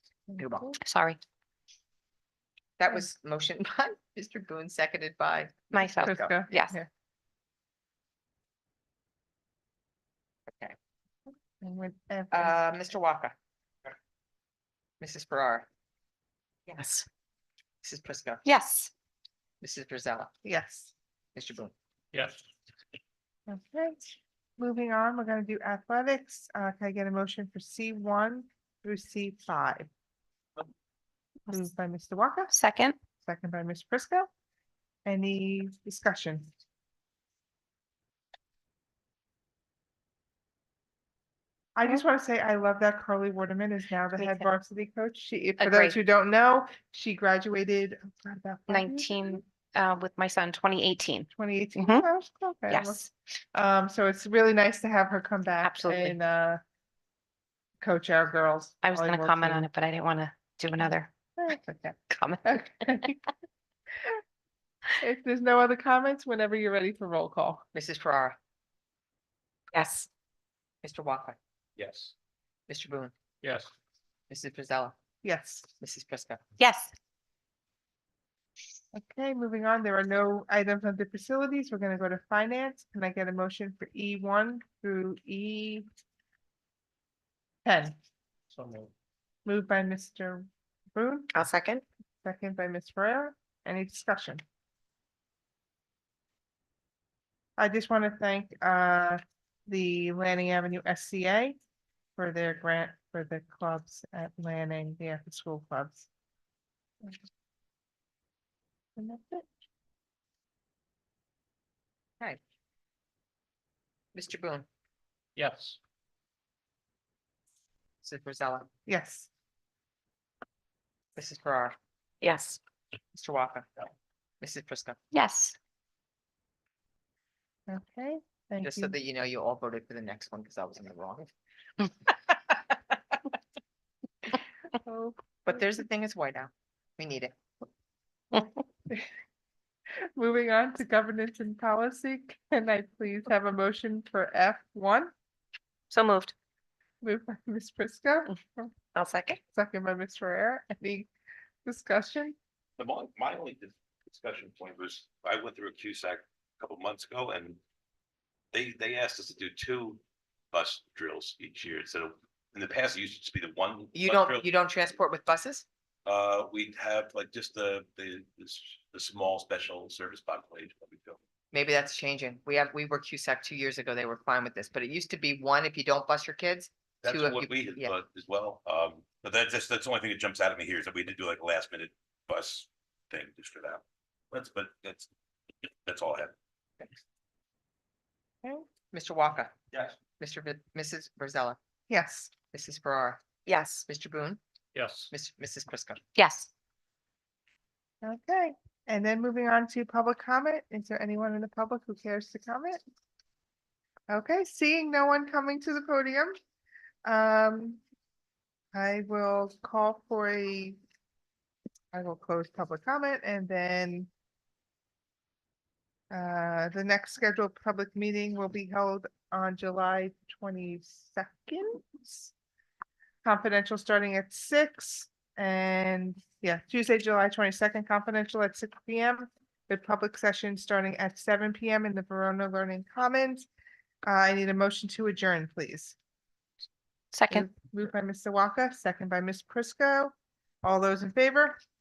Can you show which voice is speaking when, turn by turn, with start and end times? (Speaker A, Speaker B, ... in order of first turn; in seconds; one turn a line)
Speaker A: 0.4-0.8
Speaker B: 0.8-1.2
Speaker A: 2.8-5.6
Speaker B: 5.7-6.8
Speaker C: 6.0-6.9
Speaker A: 10.5-10.8
Speaker C: 11.6-12.6
Speaker A: 12.3-13.3
Speaker A: 15.0-15.7
Speaker B: 16.8-17.1
Speaker A: 17.8-18.4
Speaker B: 18.4-18.9
Speaker A: 19.6-20.3
Speaker C: 20.4-20.9
Speaker A: 21.4-21.7
Speaker D: 22.1-22.4
Speaker C: 23.5-29.9
Speaker C: 31.5-32.5
Speaker B: 32.5-33.0
Speaker C: 33.2-34.3
Speaker C: 35.1-36.5
Speaker C: 41.8-49.4
Speaker B: 44.2-44.5
Speaker B: 45.6-46.0
Speaker B: 48.7-52.0
Speaker C: 51.3-56.6
Speaker B: 52.7-53.1
Speaker B: 55.6-56.2
Speaker C: 57.8-59.7
Speaker B: 58.8-61.1
Speaker C: 60.8-63.2
Speaker B: 62.1-63.0
Speaker C: 65.0-67.6
Speaker A: 67.7-68.4
Speaker B: 69.7-70.1
Speaker A: 70.8-71.4
Speaker A: 72.7-73.1
Speaker D: 73.4-73.7
Speaker A: 74.3-75.0
Speaker C: 75.2-75.7
Speaker A: 75.8-76.4
Speaker B: 76.6-76.9
Speaker C: 78.9-85.9
Speaker C: 87.7-88.0
Speaker D: 88.5-88.9
Speaker C: 89.5-91.3
Speaker B: 91.3-91.8
Speaker C: 92.2-94.4
Speaker C: 97.6-101.6
Speaker C: 102.2-106.1
Speaker C: 109.0-109.5
Speaker A: 114.2-114.7
Speaker D: 115.4-115.8
Speaker A: 118.0-118.7
Speaker C: 118.9-119.3
Speaker A: 121.2-121.8
Speaker B: 122.2-122.6
Speaker A: 123.1-123.7
Speaker A: 124.4-125.0
Speaker B: 125.1-125.6
Speaker C: 127.7-129.0
Speaker A: 128.6-131.3
Speaker C: 134.8-135.7
Speaker A: 135.4-137.3
Speaker C: 138.3-139.1
Speaker C: 140.2-145.1
Speaker B: 145.9-146.3
Speaker C: 147.0-148.7
Speaker B: 148.9-149.4
Speaker C: 149.5-151.1
Speaker C: 151.7-152.4
Speaker E: 152.8-157.6
Speaker E: 158.5-160.0
Speaker E: 160.5-164.5
Speaker A: 163.9-165.7
Speaker E: 166.1-171.2
Speaker A: 171.5-177.9
Speaker E: 177.0-185.1
Speaker E: 185.8-186.3
Speaker A: 188.9-189.5
Speaker A: 190.2-191.6
Speaker C: 191.9-192.3
Speaker A: 192.5-193.2
Speaker B: 193.5-193.8
Speaker A: 193.8-194.4
Speaker D: 194.8-195.1
Speaker A: 195.1-196.0
Speaker B: 196.2-196.5
Speaker C: 198.0-202.8
Speaker C: 204.1-206.4
Speaker C: 207.1-207.8
Speaker C: 208.7-210.8
Speaker C: 211.9-214.1
Speaker C: 216.1-222.3
Speaker C: 223.2-233.5
Speaker C: 234.1-236.0
Speaker B: 237.1-237.5
Speaker C: 237.3-241.6